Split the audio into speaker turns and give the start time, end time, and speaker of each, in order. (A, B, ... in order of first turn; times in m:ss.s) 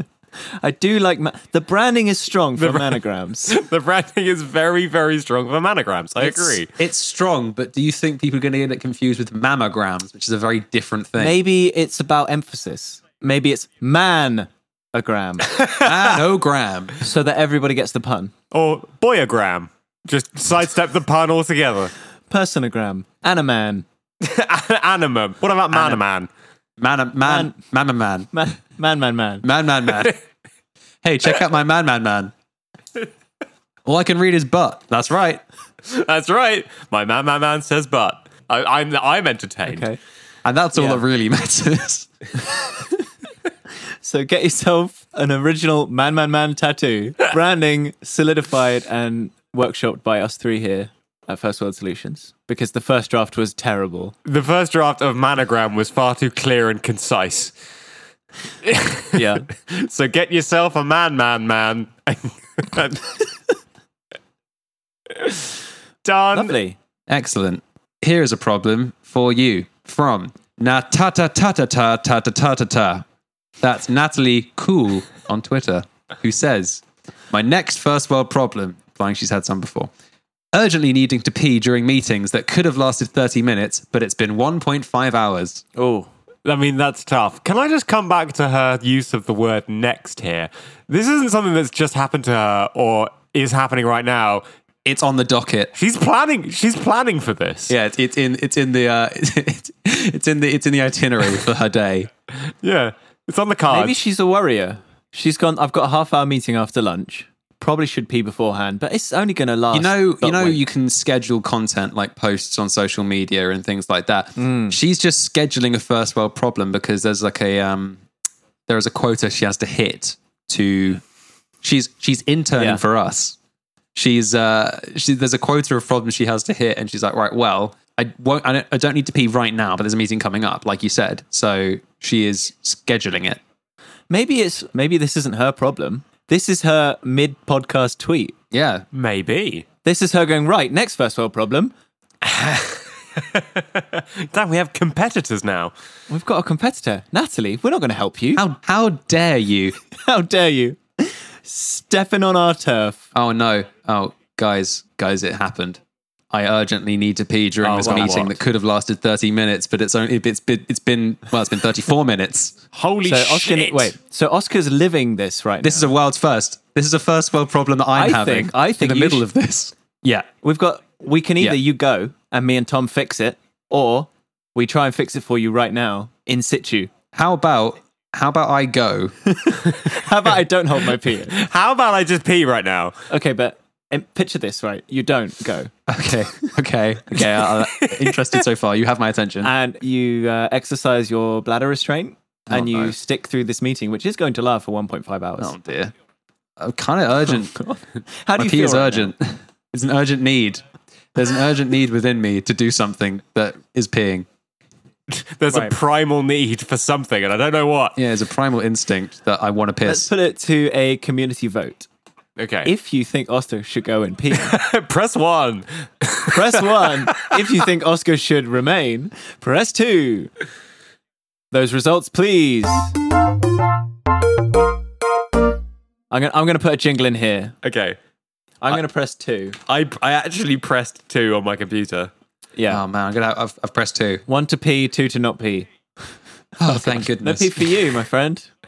0:00.6-0:03.5 A
0:02.6-0:06.7 B
0:06.2-0:11.4 C
0:11.2-0:15.6 A
0:15.5-0:16.2 B
0:15.8-0:17.0 C
0:17.0-0:18.3 A
0:18.5-0:21.9 B
0:22.3-0:23.8 A
0:24.2-0:26.3 B
0:25.7-0:26.0 C
0:26.8-0:28.3 C
0:27.2-0:27.5 A
0:28.3-0:29.4 A
0:29.4-0:30.2 C
0:31.0-0:32.3 C
0:33.8-0:35.4 C
0:35.8-0:39.8 B
0:39.7-0:40.0 A
0:40.4-0:42.1 C
0:40.8-0:41.0 A
0:42.5-0:43.0 A
0:44.0-0:54.1 A
0:54.2-0:57.5 B
0:58.6-1:03.3 B
0:59.1-0:59.5 A
1:05.2-1:05.5 B
1:06.0-1:06.5 B
1:06.3-1:06.8 A
1:07.1-1:13.0 C
1:13.6-1:19.9 C
1:20.5-1:25.6 C
1:25.8-1:26.1 A
1:26.4-1:34.4 B
1:34.8-1:35.7 C
1:35.8-1:37.7 B
1:37.7-1:42.1 C
1:42.6-1:43.9 B
1:43.7-1:50.6 A
1:49.7-1:58.0 C
1:54.4-1:54.8 A
1:58.7-2:01.0 C
2:01.6-2:03.4 C
2:03.9-2:13.4 C
2:14.1-2:18.4 A
2:18.5-2:18.8 C
2:18.9-2:19.6 B
2:19.8-2:21.7 A
2:22.2-2:25.7 B
2:26.1-2:28.4 A
2:28.4-2:29.7 C
2:30.0-2:33.0 A
2:33.1-2:35.8 C
2:36.3-2:42.6 C
2:37.6-2:38.3 B
2:37.8-2:38.2 A
2:42.7-2:43.9 B
2:43.0-2:45.9 A
2:45.6-2:50.3 C
2:47.9-2:49.2 A
2:50.4-2:56.9 A
2:57.1-2:59.1 C
2:59.3-3:01.4 A
3:01.3-3:02.9 B
3:03.1-3:05.7 A
3:05.9-3:09.5 C
3:07.5-3:08.2 B
3:09.4-3:15.5 A
3:12.5-3:12.9 C
3:15.4-3:15.9 C
3:16.6-3:17.6 C
3:17.3-3:19.1 A
3:18.4-3:20.6 C
3:21.1-3:24.2 C
3:25.1-3:28.0 B
3:28.0-3:30.1 C
3:29.8-3:31.9 A
3:32.4-3:32.7 B
3:32.6-3:34.6 A
3:34.3-3:37.4 B
3:36.3-3:40.3 A
3:41.5-3:42.9 A
3:46.1-3:47.5 A
3:47.6-3:48.0 B
3:48.6-3:49.6 A
3:49.6-3:52.1 B
3:52.6-3:52.8 A
3:52.7-3:54.2 C
3:54.3-3:55.7 A
3:56.6-3:57.8 C
3:56.6-3:58.5 A